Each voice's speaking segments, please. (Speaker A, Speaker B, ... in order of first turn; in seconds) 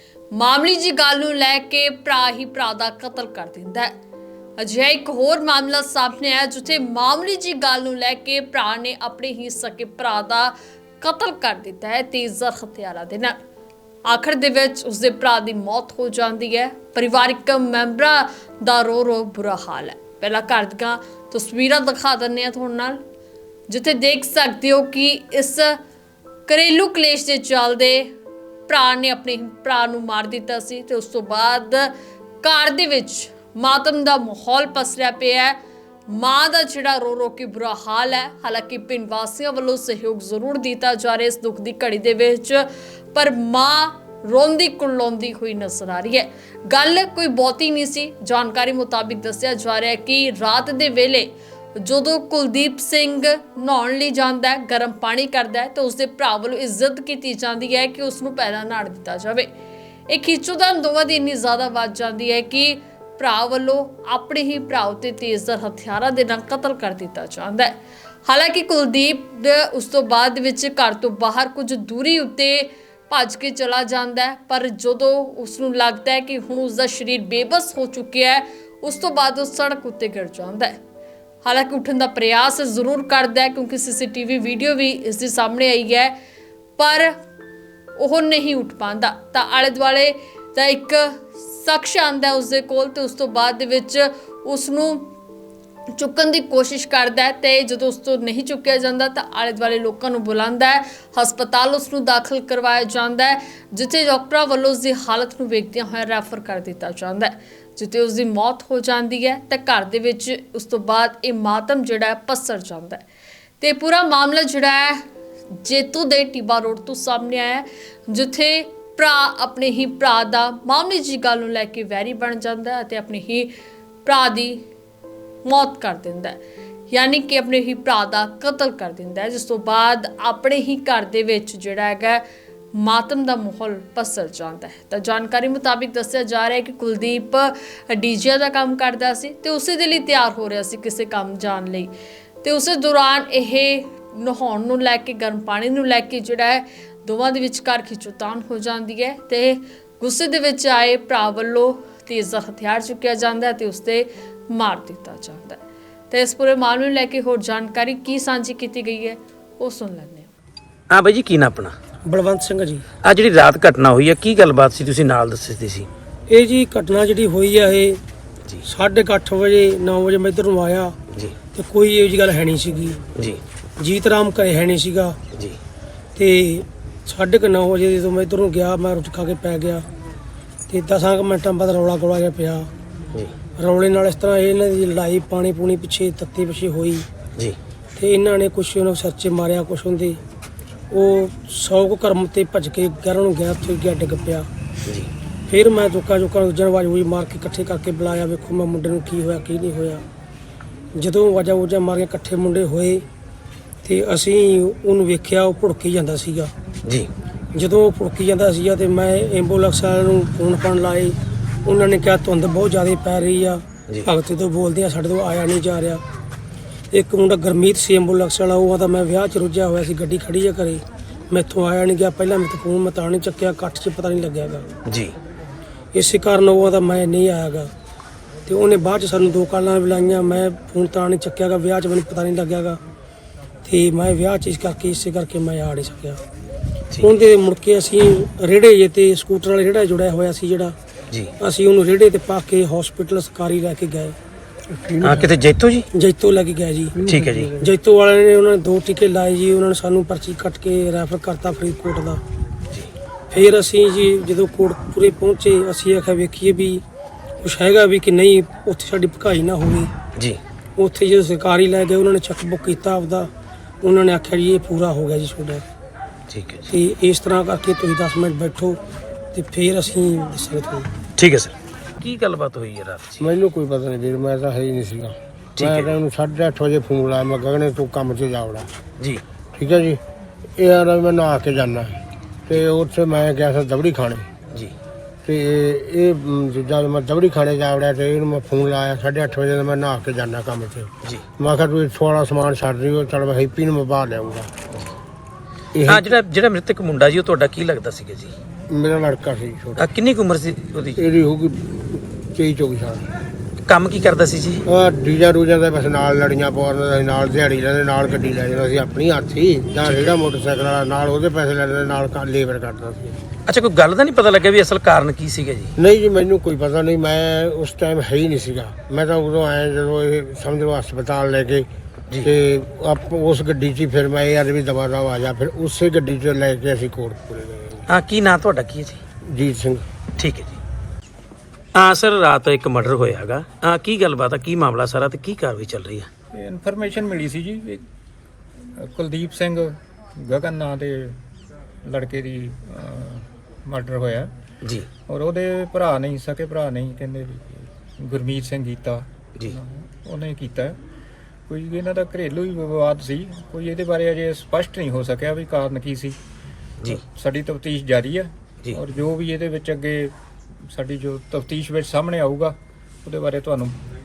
Speaker A: 0.3-3.9, 4.6-13.4, 14.0-23.0, 23.7-25.8, 26.5-28.1, 28.7-35.6, 36.1-59.5, 60.1-80.8, 81.4-86.2, 86.8-87.2, 88.0-95.1, 95.9-113.0, 113.6-115.0, 115.6-123.5, 124.0-124.6, 125.4-126.4, 126.9-160.3
Speaker B: 160.9-161.7, 163.0-165.9, 173.2-173.4, 224.9-225.1, 245.0-245.9, 247.0-247.5, 266.3-266.7, 271.2-273.3, 275.6-275.9, 295.9-298.3, 299.8-301.0, 303.6-304.6, 309.9-310.1, 313.4-315.7, 327.9-329.0, 330.2-330.6, 331.7-336.1
Speaker C: 162.0-162.8, 166.3-168.0, 168.6-170.9, 171.5-173.0, 173.8-175.2, 176.1-179.8, 180.7-182.7, 183.6-187.1, 187.9-190.2, 190.9-194.5, 195.5-200.0, 200.9-203.0, 203.8-206.5, 207.5-216.0, 216.9-224.7, 225.9-227.7, 228.4-232.8, 233.6-236.2, 237.0-240.7, 241.4-244.2, 245.9-247.0, 247.6-252.2, 253.3-256.8, 257.4-259.9, 260.8-263.3, 263.8-265.6, 266.7-268.8, 269.3-270.9
Speaker D: 244.7-245.3, 246.9-247.7, 273.2-278.7, 279.6-280.0, 280.6-284.3, 285.2-294.5, 295.7-296.1, 298.7-299.9, 300.9-303.1, 304.6-313.1, 315.8-321.7, 322.2-327.9, 329.3-329.8
Speaker E: 336.3-337.8, 338.8-341.2, 341.9-344.3, 345.1-350.8, 351.5-356.2, 356.9-360.1, 360.7-363.8